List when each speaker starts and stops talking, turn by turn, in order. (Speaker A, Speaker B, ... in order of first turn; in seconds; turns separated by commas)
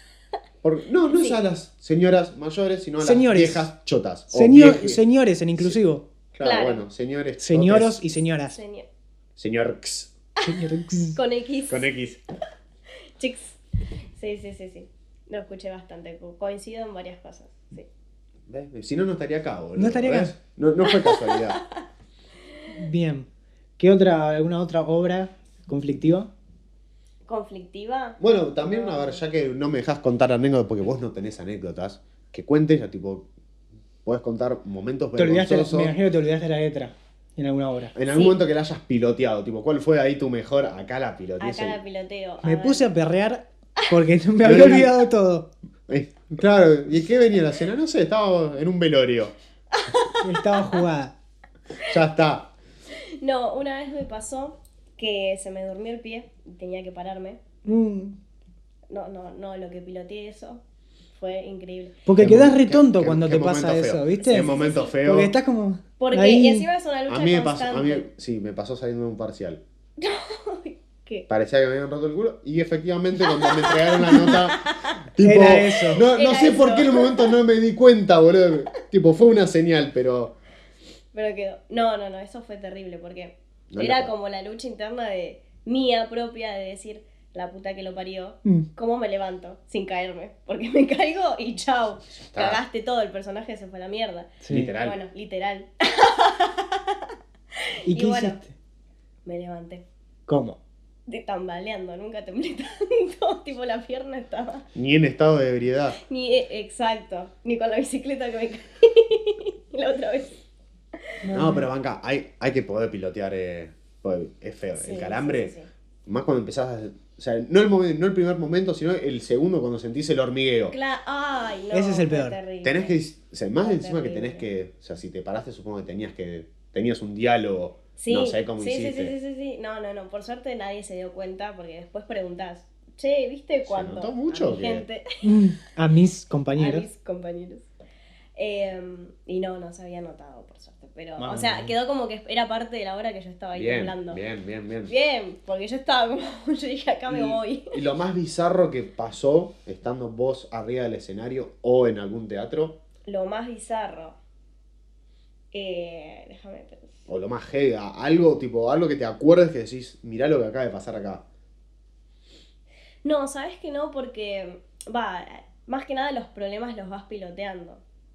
Speaker A: 0.6-5.0, Speaker B: 1.1-1.4, Speaker C: 3.0-3.7, Speaker C: 4.3-6.1, Speaker A: 6.3-8.0, Speaker B: 6.4-6.8, Speaker C: 7.4-8.6, Speaker B: 8.5-8.9, Speaker A: 9.4-10.1, Speaker C: 10.4-11.2, Speaker B: 11.0-11.9, Speaker A: 11.7-12.2, Speaker B: 13.2-13.5, Speaker B: 14.2-17.9, Speaker A: 18.5-21.6, Speaker C: 19.8-20.3, Speaker B: 20.8-21.8, Speaker C: 22.7-23.3, Speaker C: 23.8-26.3, Speaker B: 27.3-29.2, Speaker A: 28.2-33.3, Speaker A: 34.0-35.9, Speaker C: 35.1-37.9, Speaker A: 37.9-41.8, Speaker B: 38.1-38.4, Speaker B: 41.4-42.9, Speaker C: 42.4-45.5, Speaker A: 44.4-45.0, Speaker A: 45.9-49.3, Speaker B: 49.7-50.8, Speaker C: 50.2-51.1, Speaker A: 51.9-52.5, Speaker B: 53.2-57.4, Speaker C: 57.6-58.1, Speaker B: 58.9-60.6, Speaker B: 61.2-62.0, Speaker C: 62.0-66.7, Speaker A: 62.2-65.3, Speaker B: 64.2-64.9, Speaker B: 66.0-68.0, Speaker A: 67.1-69.6, Speaker B: 70.0-71.3, Speaker A: 71.3-80.3, Speaker B: 73.3-75.0, Speaker C: 75.2-76.0, Speaker B: 76.0-77.4, Speaker B: 81.1-97.0, Speaker A: 83.7-84.1, Speaker A: 92.2-92.6, Speaker C: 94.4-94.7, Speaker A: 94.5-95.0, Speaker C: 97.8-98.5, Speaker B: 97.9-98.4, Speaker B: 99.2-99.8, Speaker C: 100.3-100.6, Speaker B: 101.1-104.7, Speaker A: 104.7-106.0, Speaker B: 106.1-110.4, Speaker C: 111.2-111.7, Speaker A: 111.3-115.5, Speaker B: 114.8-115.7, Speaker A: 116.0-120.7, Speaker B: 120.7-122.9, Speaker C: 121.7-122.4, Speaker A: 122.6-129.1, Speaker B: 123.6-124.5, Speaker B: 128.0-135.2, Speaker A: 133.7-134.8, Speaker C: 135.2-136.9, Speaker B: 136.6-137.7, Speaker B: 138.3-144.2, Speaker C: 141.2-141.7, Speaker A: 143.5-144.9, Speaker B: 144.9-147.8, Speaker A: 147.1-152.8, Speaker B: 153.1-154.2, Speaker B: 155.5-156.9, Speaker A: 157.1-161.2, Speaker B: 163.0-167.8